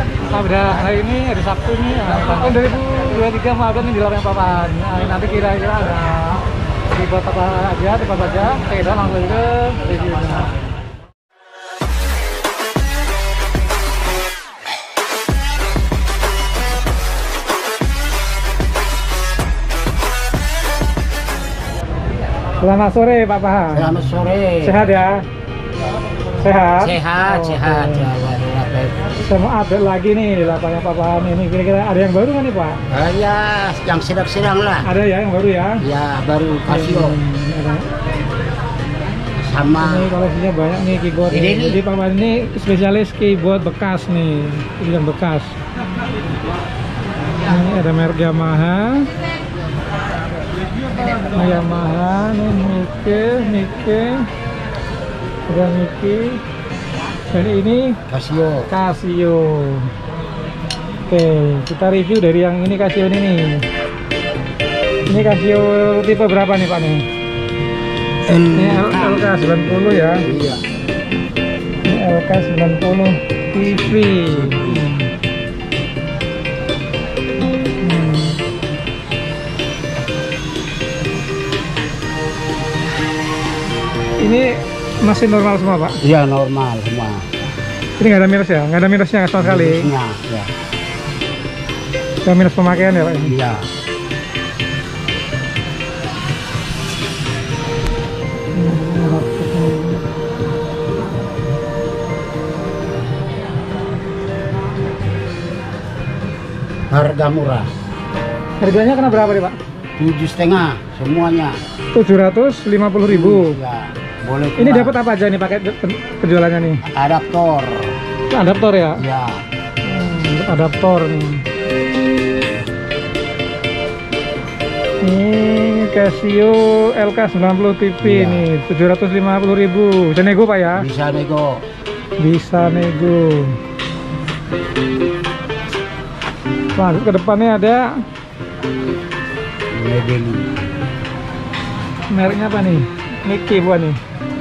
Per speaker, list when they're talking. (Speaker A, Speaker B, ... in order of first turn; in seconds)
Speaker A: 0.3-10.6, 22.6-24.0, 24.6-25.2, 26.4-28.1, 29.1-32.8, 34.8-35.8, 36.7-37.9, 39.8-45.6, 47.5-49.1, 51.3-54.3, 55.5-56.4, 57.3-58.0, 58.7-59.9, 61.1-63.7, 65.1-67.1, 68.5-70.3, 71.8-75.1, 77.8-78.4, 84.2-86.0, 88.0-89.9, 92.2-93.4, 98.5-100.0, 108.6-109.6, 111.9-113.6, 114.6-116.8, 118.3-119.0, 119.8-121.4, 125.0-130.9, 132.2-133.6, 136.8-138.0, 142.1-144.0
Speaker B: 23.7-24.8, 26.8-29.1, 32.9-34.9, 35.8-37.2, 39.4-40.1, 41.3-41.8, 58.1-58.7, 68.2-69.4, 70.2-70.6, 73.6-74.9, 86.0-87.3, 89.4-90.5, 93.3-93.7, 106.9-107.7, 110.0-111.6, 113.1-115.0, 116.9-118.0, 119.0-119.4, 128.0-128.5, 130.8-131.6, 139.7-140.6